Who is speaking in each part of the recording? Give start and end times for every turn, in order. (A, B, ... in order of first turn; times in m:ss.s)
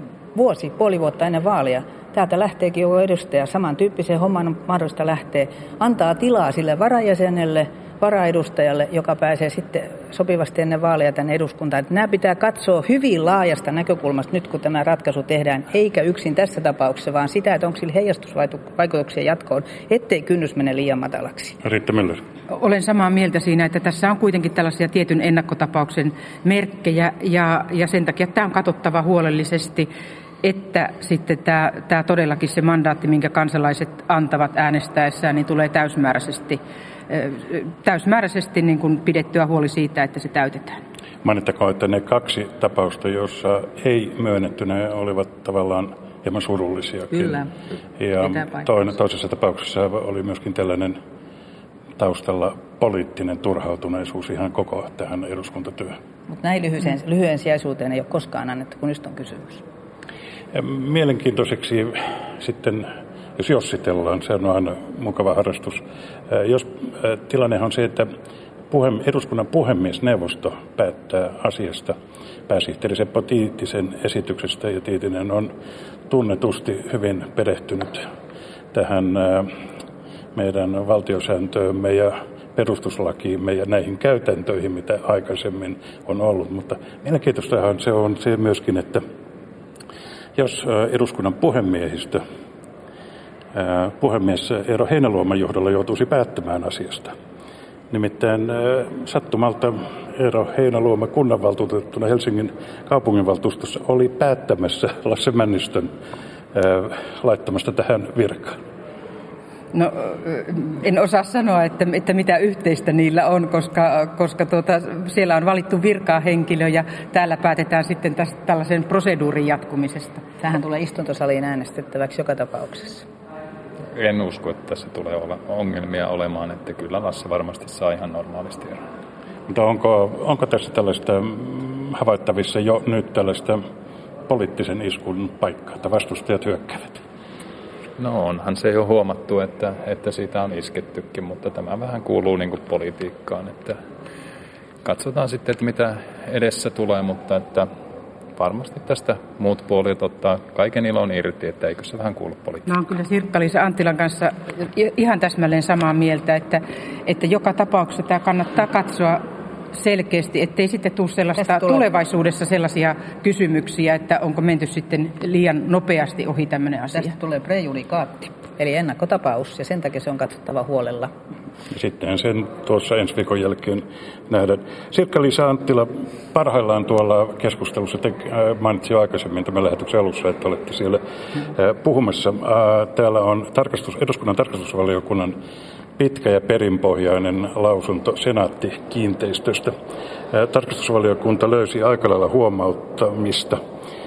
0:00.3-0:21.6 A
0:21.6-0:22.2 B
0:22.5-0:29.9 C
0:30.4-0:40.8 C
0:41.2-0:47.4 B
0:47.1-0:47.5 A
0:48.0-0:51.0 B
0:48.2-0:48.7 A
0:52.0-0:56.0 B
0:56.3-0:59.6 A
1:00.5-1:08.1 B
1:08.7-1:12.0 B
1:12.5-1:15.5 B
1:16.1-1:18.1 B
1:18.7-1:19.6 B
1:20.4-1:29.0 B
1:30.4-1:32.2 B
1:33.5-1:37.1 B
1:37.9-1:45.9 B
1:46.5-1:48.6 B
1:49.7-2:00.2 C
2:00.4-2:03.1 A
2:03.9-2:08.8 D
2:09.5-2:13.6 B
2:14.3-2:17.0 B
2:18.0-2:23.8 D
2:24.8-2:27.7 D
2:28.4-2:32.7 D
2:32.7-2:47.1 C
2:41.4-2:41.9 A
2:46.9-2:51.1 A
2:51.7-3:05.4 B
3:06.0-3:09.7 B
3:10.3-3:13.6 B